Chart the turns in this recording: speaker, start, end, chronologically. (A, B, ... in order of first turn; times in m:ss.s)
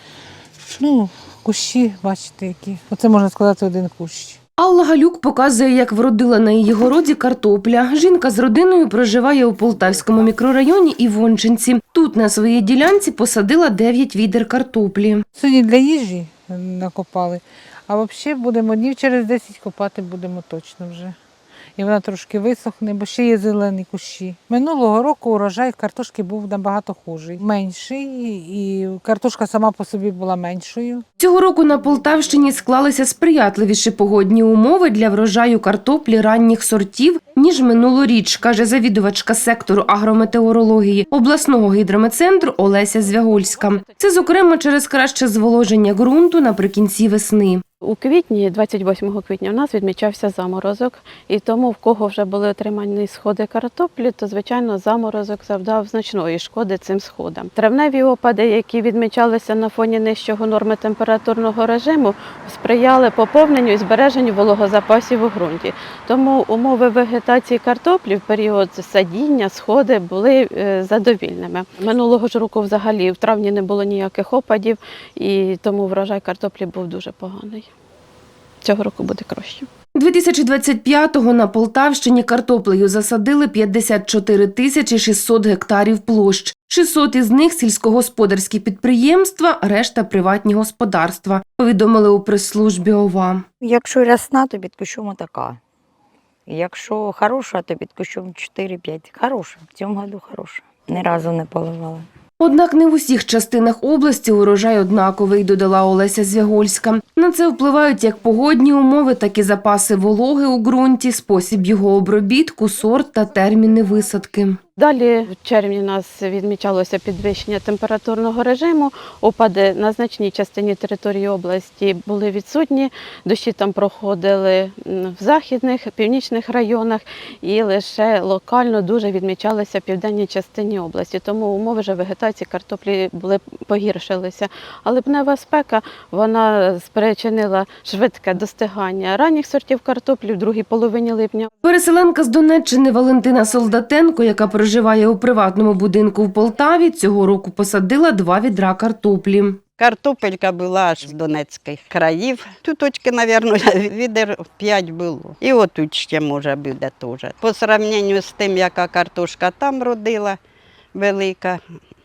0:00.8-0:04.4 A
0:04.6-0:15.2 B
0:15.4-0:21.2 A
0:21.8-0:31.0 A
0:31.2-0:47.6 B
0:47.8-1:17.7 C
1:18.6-1:19.7 C
1:20.0-1:33.4 B
1:33.6-1:35.6 D
1:36.5-1:42.1 D
1:42.4-1:54.6 B
1:54.8-2:21.5 C
2:21.6-2:29.6 B
2:29.8-2:40.4 E
2:41.0-2:41.6 E